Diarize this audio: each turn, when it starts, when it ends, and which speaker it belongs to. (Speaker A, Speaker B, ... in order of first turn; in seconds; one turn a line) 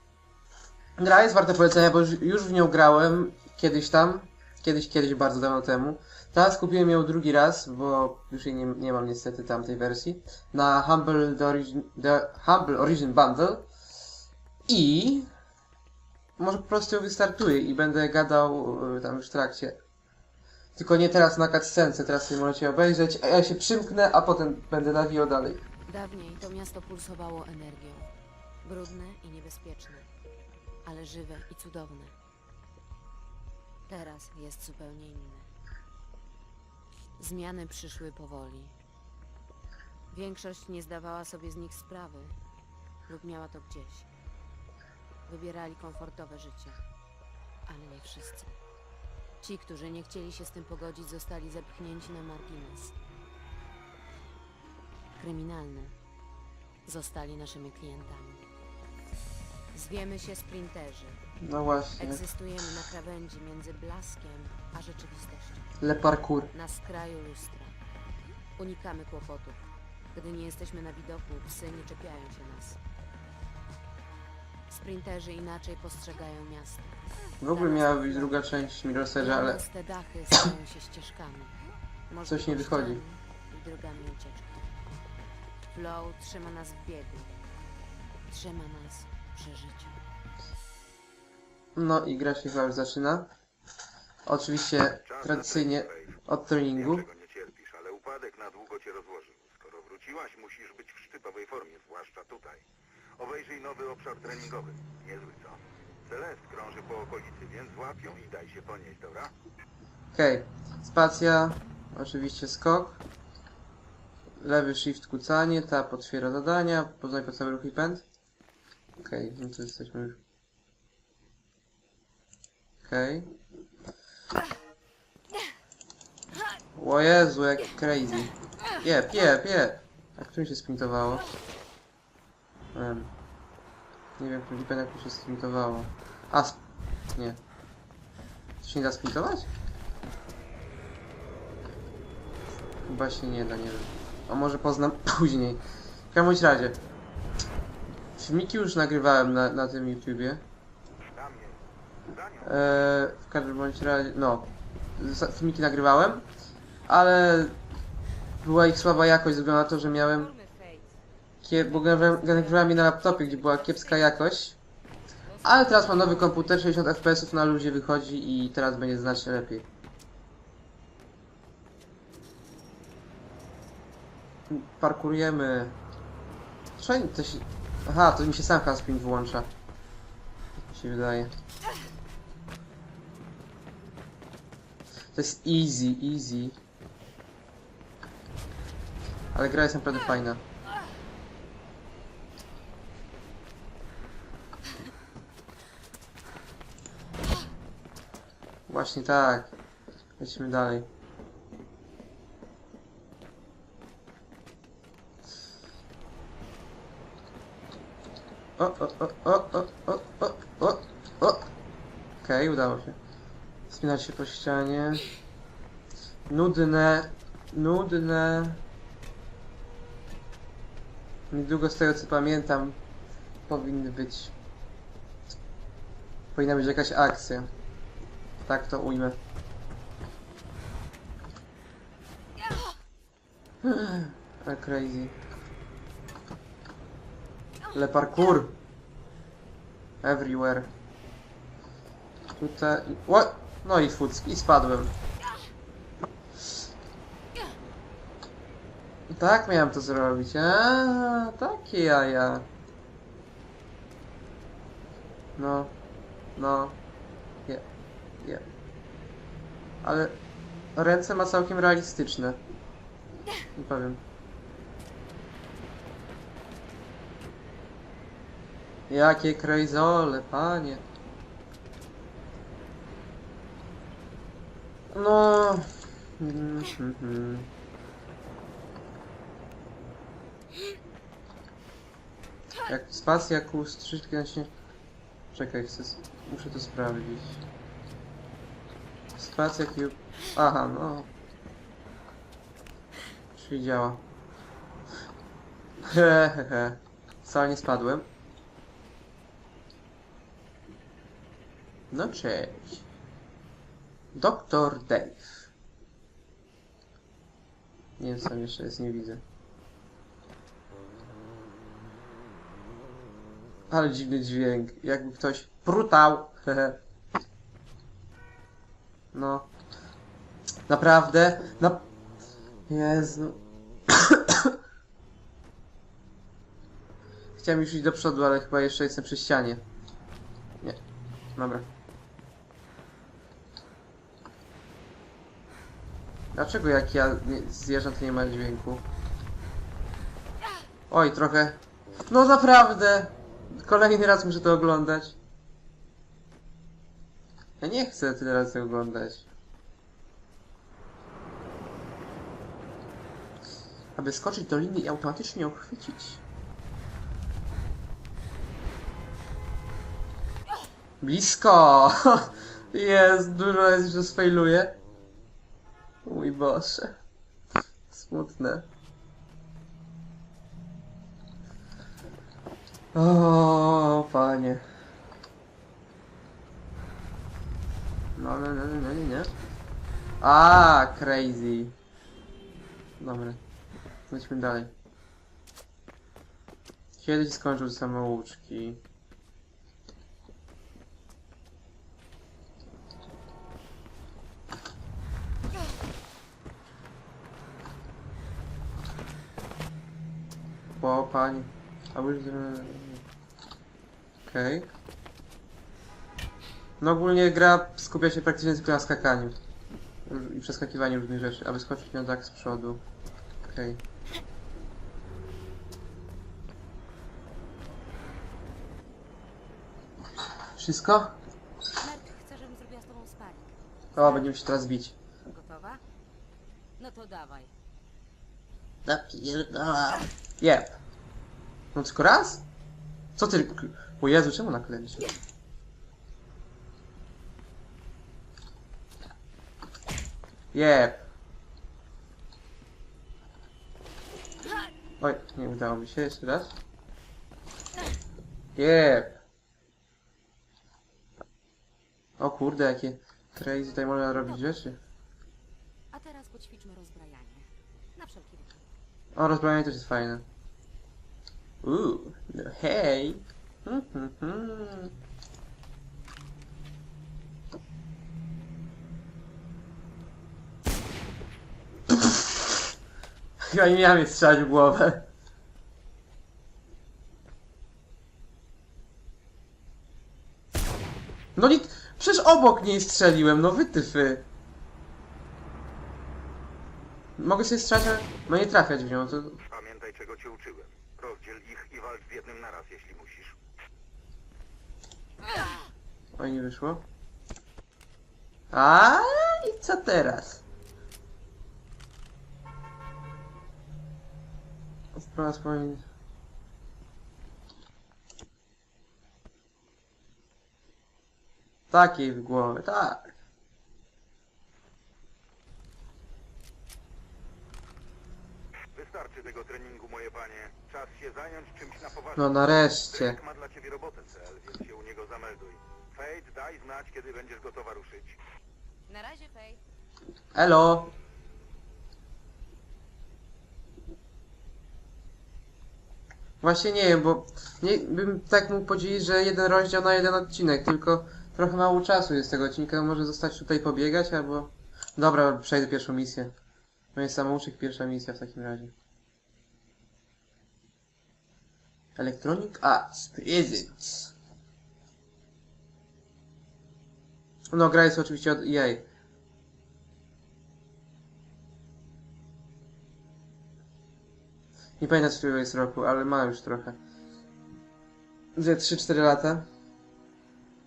Speaker A: 1.0-13.7
Speaker A: 14.7-15.3
Speaker A: 16.4-19.8
Speaker A: 20.8-25.6
Speaker B: 25.9-28.1
Speaker B: 28.6-30.1
Speaker B: 30.8-32.1
Speaker B: 33.9-35.5
Speaker B: 37.2-38.8
Speaker B: 40.1-42.4
Speaker B: 43.0-44.1
Speaker B: 45.2-46.8
Speaker B: 47.7-48.6
Speaker B: 49.4-52.9
Speaker B: 55.1-56.0
Speaker B: 56.8-58.4
Speaker B: 59.7-61.3
Speaker A: 61.4-62.2
Speaker B: 62.0-65.7
Speaker A: 65.8-66.5
Speaker B: 66.5-67.8
Speaker B: 68.6-72.8
Speaker B: 74.7-78.6
Speaker A: 77.4-79.6
Speaker B: 79.2-81.6
Speaker B: 82.1-84.7
Speaker A: 82.2-83.0
Speaker B: 85.7-87.4
Speaker B: 88.3-90.0
Speaker A: 91.7-93.3
Speaker A: 94.2-97.1
Speaker C: 95.1-96.1
Speaker C: 96.8-102.6
Speaker C: 103.2-109.3
Speaker A: 110.1-113.0
Speaker A: 114.4-118.0
Speaker A: 119.0-120.2
Speaker A: 122.8-123.3
Speaker A: 126.7-131.2
Speaker A: 132.7-133.1
Speaker A: 134.2-136.6
Speaker A: 137.1-137.4
Speaker A: 138.6-139.5
Speaker A: 142.9-146.8
Speaker A: 148.2-150.4
Speaker C: 151.1-152.5
Speaker A: 152.4-156.2
Speaker A: 156.9-157.6
Speaker A: 158.4-160.3
Speaker B: 160.1-160.9
Speaker A: 161.4-164.6
Speaker B: 161.5-164.2
Speaker B: 165.3-166.4
Speaker A: 165.4-169.7
Speaker A: 174.5-175.8
Speaker A: 176.8-179.5
Speaker A: 180.7-181.3
Speaker A: 185.1-186.6
Speaker A: 189.3-190.4
Speaker A: 198.7-199.5
Speaker A: 200.2-200.9
Speaker A: 208.6-211.5
Speaker A: 212.2-213.0
Speaker A: 213.7-215.0
Speaker A: 216.3-218.6
Speaker A: 221.3-222.8
Speaker A: 223.5-224.3
Speaker A: 226.3-227.5
Speaker A: 228.4-229.2
Speaker A: 233.6-235.2
Speaker A: 237.7-238.6
Speaker A: 240.0-240.7
Speaker A: 242.3-244.9
Speaker A: 249.1-252.5
Speaker A: 255.4-255.7
Speaker A: 256.4-256.8
Speaker A: 259.8-260.2
Speaker A: 260.8-262.4
Speaker A: 263.5-264.0
Speaker A: 268.9-270.8
Speaker A: 274.9-277.5
Speaker A: 282.6-284.5
Speaker A: 285.3-287.4
Speaker A: 289.1-291.1
Speaker A: 293.3-294.0
Speaker A: 295.8-298.1
Speaker A: 301.9-302.8
Speaker A: 304.1-305.5
Speaker A: 308.0-309.2
Speaker A: 313.7-316.8
Speaker A: 319.1-319.5
Speaker A: 320.7-321.9
Speaker A: 322.7-324.6
Speaker A: 327.4-329.6
Speaker A: 331.4-331.7
Speaker A: 336.3-338.8
Speaker A: 340.9-345.2
Speaker A: 347.6-349.3
Speaker A: 353.9-356.2
Speaker A: 361.0-364.8
Speaker A: 366.0-366.9
Speaker A: 367.9-368.7
Speaker A: 372.9-374.6
Speaker A: 378.1-379.3
Speaker A: 380.2-381.7
Speaker A: 383.0-383.4
Speaker A: 384.1-384.7
Speaker A: 387.0-388.8
Speaker A: 400.8-403.0
Speaker A: 404.2-404.7
Speaker A: 406.8-409.4
Speaker A: 410.1-412.8
Speaker A: 413.4-413.8
Speaker A: 420.6-421.1
Speaker B: 421.8-424.6
Speaker A: 423.9-424.9
Speaker B: 425.2-425.8
Speaker B: 426.8-427.5
Speaker A: 428.9-430.8
Speaker A: 431.7-432.4
Speaker A: 433.1-435.0
Speaker A: 440.5-441.0
Speaker A: 445.0-446.6
Speaker A: 448.6-449.2
Speaker A: 452.2-454.8
Speaker B: 455.9-458.6
Speaker A: 459.1-460.2
Speaker A: 461.6-464.9
Speaker A: 471.9-472.5
Speaker A: 473.4-475.1
Speaker A: 481.4-484.2
Speaker A: 487.2-489.4
Speaker C: 489.5-493.4
Speaker A: 496.1-496.9
Speaker A: 498.5-500.4
Speaker A: 504.9-505.8
Speaker A: 511.7-513.1
Speaker C: 518.7-522.2
Speaker A: 522.1-523.2
Speaker C: 522.9-528.2
Speaker B: 528.9-529.6
Speaker A: 530.3-530.9
Speaker A: 536.4-546.3
Speaker A: 546.9-548.7
Speaker A: 552.0-554.1
Speaker A: 557.5-558.8
Speaker A: 564.8-566.8
Speaker A: 568.4-569.5